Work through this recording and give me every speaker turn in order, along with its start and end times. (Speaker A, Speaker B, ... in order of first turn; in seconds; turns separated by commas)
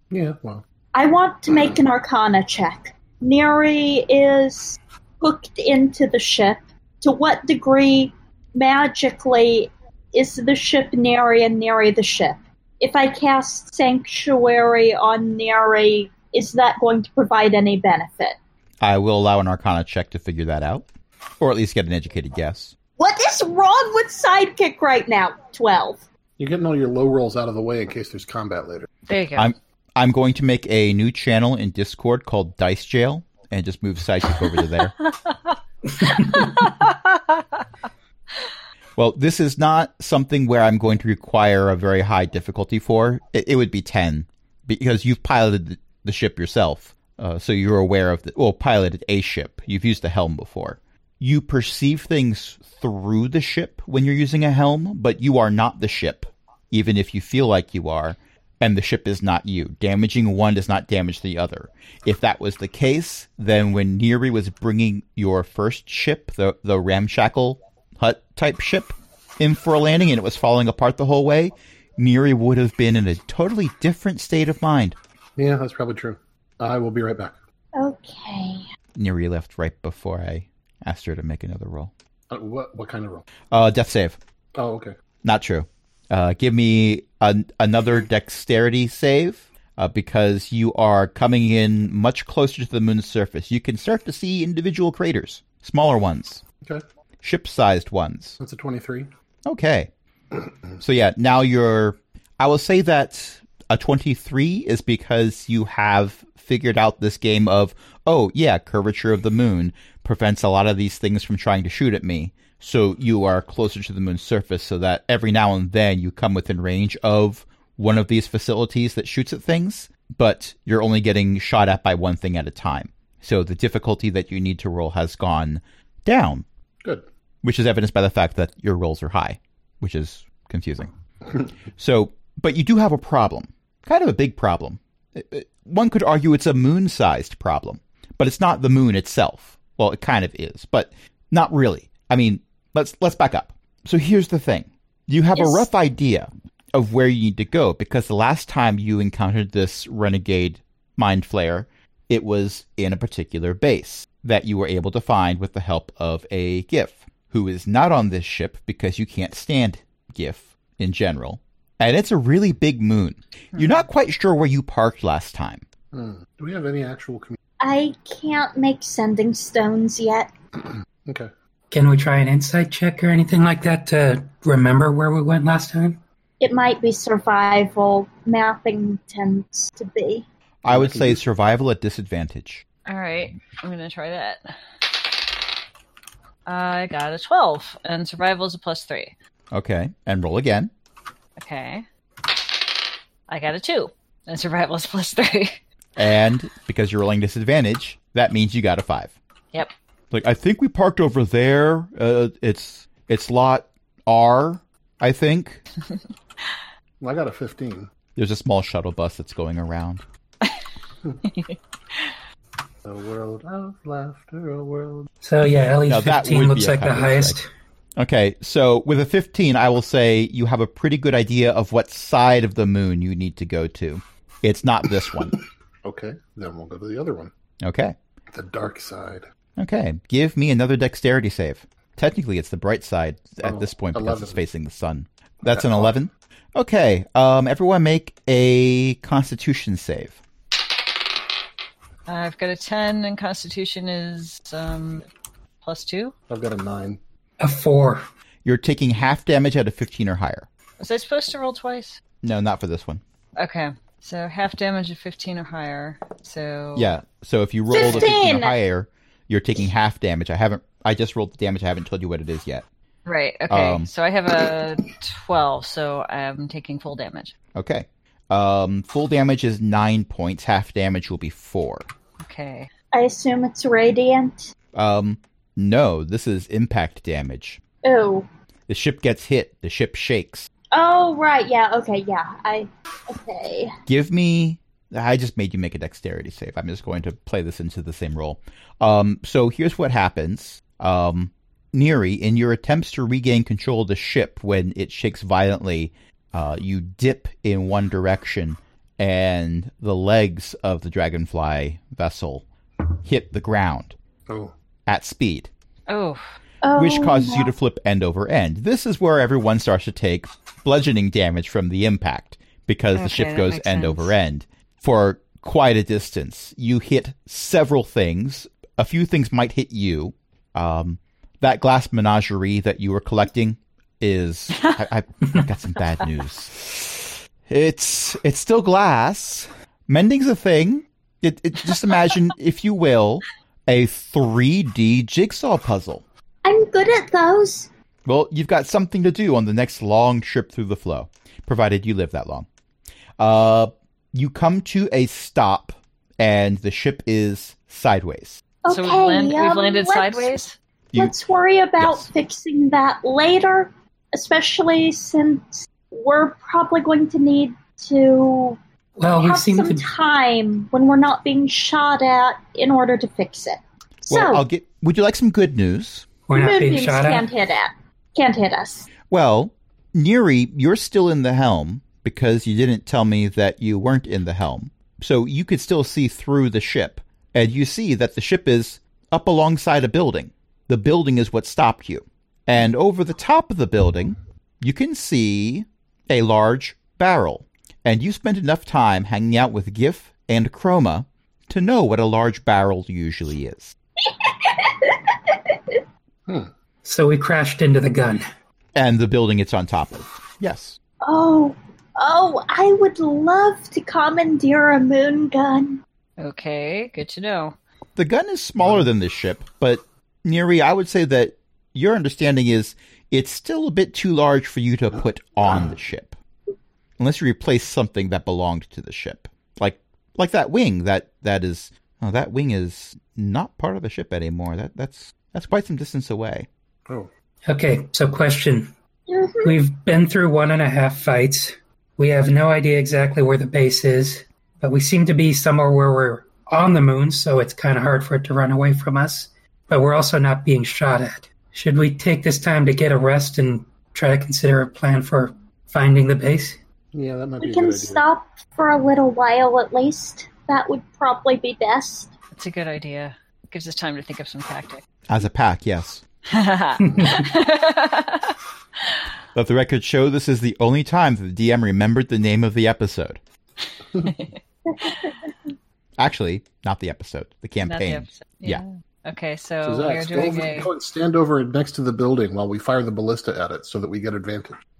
Speaker A: 0.1-0.6, Speaker B: 0.9-18.4, Speaker C: 18.8-20.8, Speaker C: 21.4-22.7, Speaker B: 23.0-26.0, Speaker A: 26.4-28.9, Speaker D: 29.1-29.5, Speaker C: 29.3-34.9, Speaker D: 36.0-37.4, Speaker C: 39.0-75.0, Speaker A: 75.4-77.3, Speaker B: 77.8-78.6, Speaker C: 78.9-81.9, Speaker A: 82.3-83.2, Speaker C: 83.5-84.2, Speaker A: 84.5-85.0, Speaker C: 85.2-96.4, Speaker C: 97.2-98.4, Speaker A: 98.4-99.1, Speaker C: 99.4-99.9, Speaker C: 100.8-126.4, Speaker C: 127.4-130.9, Speaker C: 131.8-165.6, Speaker B: 145.3-145.6, Speaker A: 165.9-167.4, Speaker B: 167.6-170.3, Speaker A: 171.1-171.3, Speaker E: 171.7-176.0, Speaker B: 176.4-180.2, Speaker C: 180.6-182.6, Speaker A: 180.7-181.2, Speaker D: 182.8-184.5, Speaker D: 186.5-189.1, Speaker C: 189.5-190.7, Speaker D: 191.4-191.8, Speaker D: 193.3-195.6, Speaker C: 195.9-199.1, Speaker C: 200.1-205.6, Speaker A: 207.0-207.9, Speaker C: 208.2-210.0, Speaker D: 211.2-212.1, Speaker A: 212.8-215.1, Speaker E: 215.2-217.5, Speaker C: 215.8-217.4, Speaker C: 218.0-225.4, Speaker A: 225.8-227.3, Speaker C: 227.6-227.9, Speaker A: 228.3-229.3, Speaker C: 229.6-240.2, Speaker A: 233.4-234.4, Speaker A: 235.4-235.9, Speaker D: 242.1-245.1, Speaker D: 245.6-246.1, Speaker A: 246.3-247.0, Speaker E: 247.4-248.0, Speaker C: 248.4-250.5, Speaker D: 250.8-252.0, Speaker C: 252.2-253.0, Speaker D: 253.3-256.9, Speaker C: 256.8-262.6, Speaker B: 257.7-258.6, Speaker D: 257.8-258.1, Speaker D: 263.1-267.3, Speaker C: 263.5-263.9, Speaker C: 267.5-271.9, Speaker D: 272.2-272.7, Speaker B: 272.9-274.5, Speaker C: 274.7-277.6, Speaker B: 277.8-278.3, Speaker C: 278.7-280.5, Speaker B: 280.7-283.8, Speaker C: 283.9-302.4, Speaker C: 303.0-303.9, Speaker C: 304.9-305.5, Speaker D: 305.9-306.2, Speaker B: 306.6-307.5, Speaker C: 306.8-336.0, Speaker D: 312.9-314.1, Speaker B: 336.4-337.7, Speaker C: 338.1-342.5, Speaker C: 343.2-348.4, Speaker B: 348.6-350.3, Speaker D: 348.7-350.6, Speaker B: 350.9-358.6, Speaker C: 351.8-352.1, Speaker E: 359.0-359.9, Speaker B: 359.2-364.4, Speaker C: 364.1-366.1, Speaker E: 366.3-367.3, Speaker B: 366.3-368.9, Speaker C: 369.1-393.7, Speaker B: 394.2-395.8, Speaker E: 396.8-398.2, Speaker C: 398.7-400.8, Speaker B: 401.0-405.8, Speaker D: 406.2-407.6, Speaker C: 407.9-416.2, Speaker C: 417.0-426.5, Speaker E: 427.5-428.7, Speaker B: 429.1-429.5, Speaker E: 429.4-446.6, Speaker A: 446.9-448.0, Speaker B: 447.4-452.1, Speaker D: 452.3-454.8, Speaker C: 455.1-456.0, Speaker D: 456.3-458.3, Speaker E: 456.8-457.2, Speaker C: 459.3-463.2, Speaker D: 464.0-465.1, Speaker B: 464.7-465.1, Speaker C: 466.0-468.6, Speaker D: 467.6-470.7, Speaker A: 469.6-474.6